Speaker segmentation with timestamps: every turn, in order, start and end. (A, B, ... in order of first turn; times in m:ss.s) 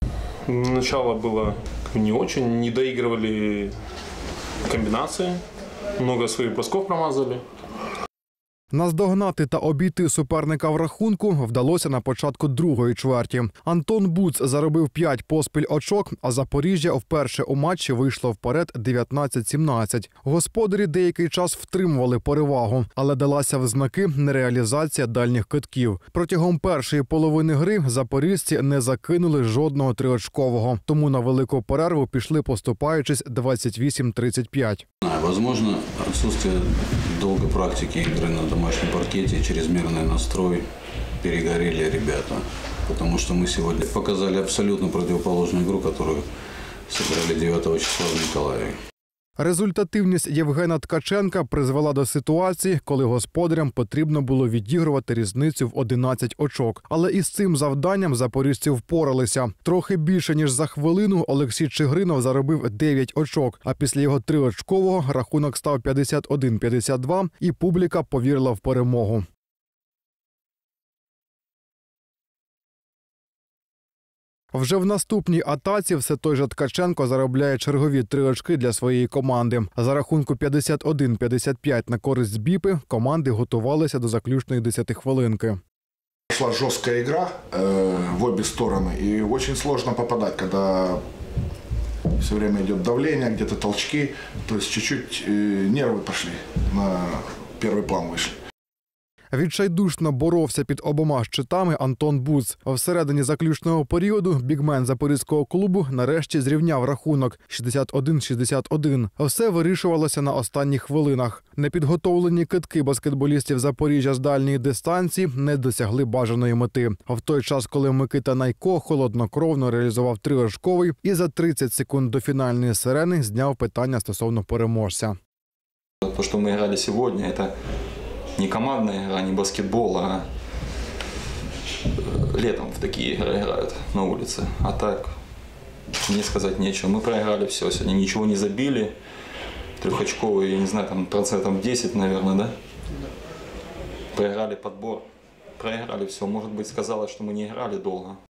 0:00.5-0:03.7 A
0:04.6-0:05.4 A
0:06.0-0:07.4 A
0:08.7-0:34.8 B
0:35.0-0:40.7 C
0:41.2-0:46.2 C
0:46.9-0:48.8 C
0:49.4-1:09.2 B
1:14.5-1:25.6 B
1:26.3-1:31.0 D
1:32.2-1:38.4 D
1:39.3-2:05.2 B
2:06.0-2:07.5 E
2:08.4-2:10.3 E
2:11.9-2:15.1 E
2:16.0-2:18.9 E
2:19.8-2:22.5 E
2:24.1-2:25.1 E
2:25.6-2:28.2 E